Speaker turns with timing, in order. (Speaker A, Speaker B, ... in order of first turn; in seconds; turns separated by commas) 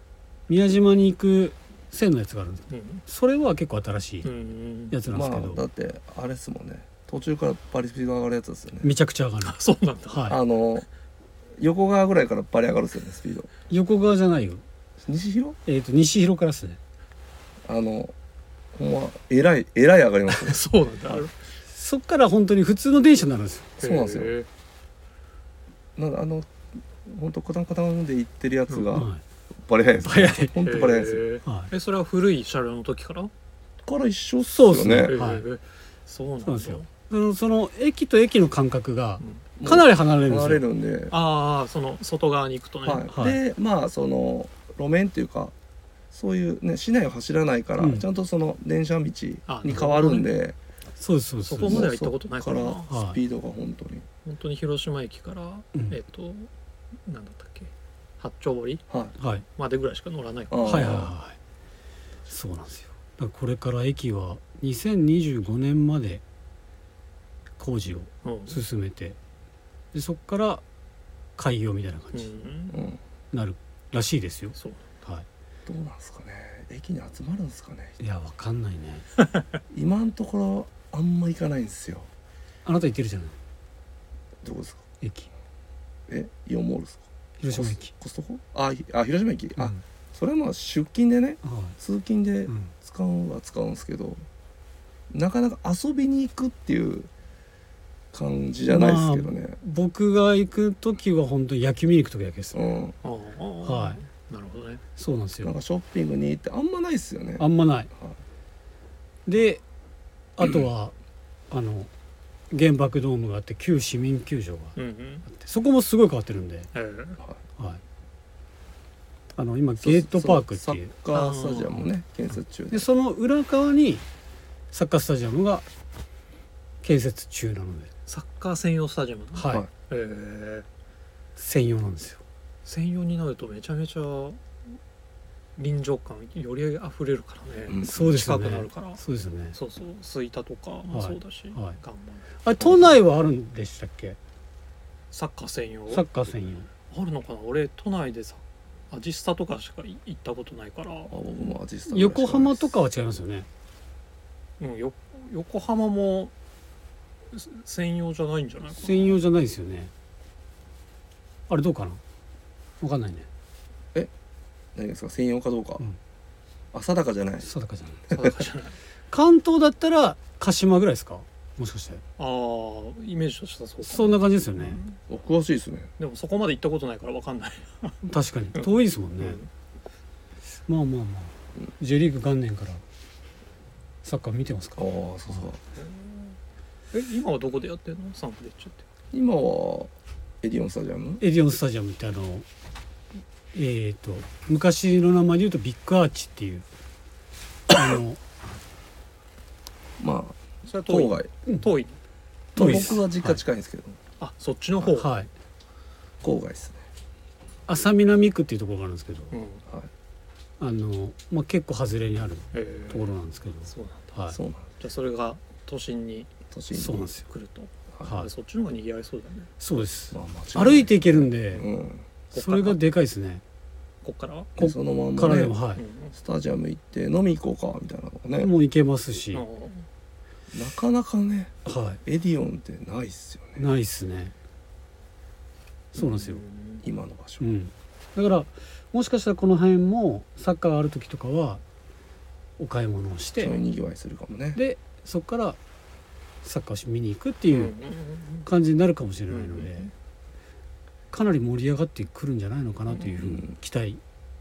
Speaker A: 0.5-4.3, Speaker B: 2.7-3.0, Speaker B: 4.2-5.0, Speaker A: 4.9-5.6, Speaker C: 5.1-8.9, Speaker A: 8.8-9.6, Speaker B: 9.4-10.2, Speaker A: 10.1-10.4, Speaker C: 10.3-10.9, Speaker C: 11.6-13.5, Speaker A: 13.7-14.6, Speaker C: 15.1-15.6, Speaker A: 15.7-16.8, Speaker C: 17.7-18.1, Speaker C: 18.8-21.3, Speaker B: 20.3-21.3, Speaker A: 21.7-23.7, Speaker B: 23.8-24.5, Speaker C: 23.8-24.3, Speaker C: 26.0-26.5, Speaker C: 27.1-29.1, Speaker A: 28.9-29.2, Speaker C: 29.6-31.2, Speaker A: 30.0-30.5, Speaker B: 30.6-33.3, Speaker C: 33.8-35.1, Speaker A: 34.5-35.4, Speaker B: 35.1-36.9, Speaker A: 36.5-40.6, Speaker C: 39.6-41.1, Speaker B: 41.1-43.1, Speaker C: 42.8-45.5, Speaker A: 43.1-43.4, Speaker C: 46.1-50.6, Speaker A: 47.8-48.0, Speaker B: 49.5-50.3, Speaker A: 51.0-51.9, Speaker B: 51.5-52.9, Speaker C: 51.6-54.1, Speaker A: 52.9-53.2, Speaker B: 54.2-56.5, Speaker B: 57.1-58.8, Speaker A: 59.2-59.5, Speaker B: 59.6-61.0, Speaker C: 60.5-61.1, Speaker A: 60.6-61.4, Speaker A: 62.3-66.2, Speaker A: 67.6-69.2, Speaker B: 68.2-68.6, Speaker A: 69.9-70.6, Speaker A: 71.4-72.3, Speaker B: 72.1-72.8, Speaker C: 72.7-73.0, Speaker A: 73.3-75.2, Speaker B: 74.6-74.8, Speaker C: 75.7-78.0, Speaker A: 78.0-79.0, Speaker C: 79.7-82.1, Speaker A: 82.7-83.3, Speaker C: 84.4-84.8, Speaker A: 85.0-85.3, Speaker C: 86.1-94.2, Speaker A: 87.4-87.9, Speaker A: 91.4-91.8, Speaker A: 92.5-92.7, Speaker C: 95.1-97.1, Speaker C: 98.1-99.6, Speaker A: 98.7-102.6, Speaker C: 102.5-103.0, Speaker B: 103.0-104.8, Speaker A: 103.6-104.0, Speaker A: 105.0-105.5, Speaker C: 105.4-108.2, Speaker A: 107.4-107.9, Speaker A: 109.3-109.6, Speaker A: 110.4-110.9, Speaker A: 111.5-111.9, Speaker A: 112.5-114.8, Speaker B: 114.8-115.3, Speaker A: 115.3-116.7, Speaker B: 116.7-117.2, Speaker A: 119.4-120.9, Speaker C: 119.8-122.9, Speaker B: 121.1-121.8, Speaker A: 122.7-124.0, Speaker A: 124.7-125.7, Speaker A: 126.8-127.9, Speaker B: 128.1-130.7, Speaker A: 129.3-129.6, Speaker A: 131.4-132.2, Speaker B: 132.7-134.4, Speaker B: 135.6-139.0, Speaker C: 137.7-138.3, Speaker A: 137.8-139.6, Speaker B: 139.5-142.3, Speaker A: 140.9-141.8, Speaker A: 142.4-144.2, Speaker C: 142.6-142.9, Speaker B: 145.1-146.0, Speaker A: 145.9-146.7, Speaker B: 146.9-151.5, Speaker C: 151.1-152.7, Speaker A: 151.9-153.5, Speaker B: 154.6-156.3, Speaker B: 157.3-159.2, Speaker A: 158.8-159.9, Speaker A: 161.5-162.0, Speaker A: 162.8-163.3, Speaker C: 164.8-165.8, Speaker C: 166.7-167.5, Speaker A: 167.4-168.0, Speaker B: 168.1-168.8, Speaker A: 169.1-172.0, Speaker B: 172.2-175.0, Speaker A: 173.8-174.8, Speaker C: 175.1-175.9, Speaker B: 176.0-179.5, Speaker A: 178.1-179.4, Speaker A: 180.7-182.8, Speaker A: 184.0-185.4, Speaker C: 184.8-185.6, Speaker B: 185.8-186.4, Speaker B: 186.9-188.8, Speaker C: 189.1-191.2, Speaker A: 191.2-192.5, Speaker A: 193.5-196.7, Speaker A: 197.7-198.2, Speaker C: 200.0-201.3, Speaker B: 200.7-202.0, Speaker A: 202.6-203.4, Speaker C: 202.6-204.0, Speaker B: 202.6-202.9, Speaker B: 204.2-205.2, Speaker A: 204.9-205.3, Speaker C: 206.2-206.8, Speaker A: 207.7-209.3, Speaker B: 209.3-209.6, Speaker A: 210.6-214.4, Speaker B: 212.5-213.1, Speaker B: 213.7-214.1, Speaker C: 214.3-214.7, Speaker B: 214.8-216.3, Speaker C: 216.5-217.1, Speaker A: 216.7-217.2, Speaker B: 217.3-219.5, Speaker A: 218.0-218.3, Speaker A: 219.6-221.7, Speaker C: 220.1-222.1, Speaker B: 222.3-222.8, Speaker A: 222.3-223.4, Speaker B: 224.0-224.5, Speaker C: 224.6-225.6, Speaker A: 224.6-225.8, Speaker B: 225.8-226.1, Speaker C: 226.2-228.5, Speaker A: 228.4-229.4, Speaker B: 229.3-229.9, Speaker C: 230.5-233.6, Speaker A: 231.7-232.0, Speaker A: 233.6-234.3, Speaker A: 235.9-236.4, Speaker B: 236.0-236.8, Speaker C: 236.8-237.4, Speaker A: 237.4-241.6, Speaker A: 242.6-243.6, Speaker C: 243.4-244.6, Speaker A: 244.6-245.6, Speaker A: 246.4-247.7, Speaker B: 247.5-248.5, Speaker A: 248.4-249.9, Speaker B: 249.3-249.9, Speaker A: 251.1-254.0, Speaker C: 253.2-253.5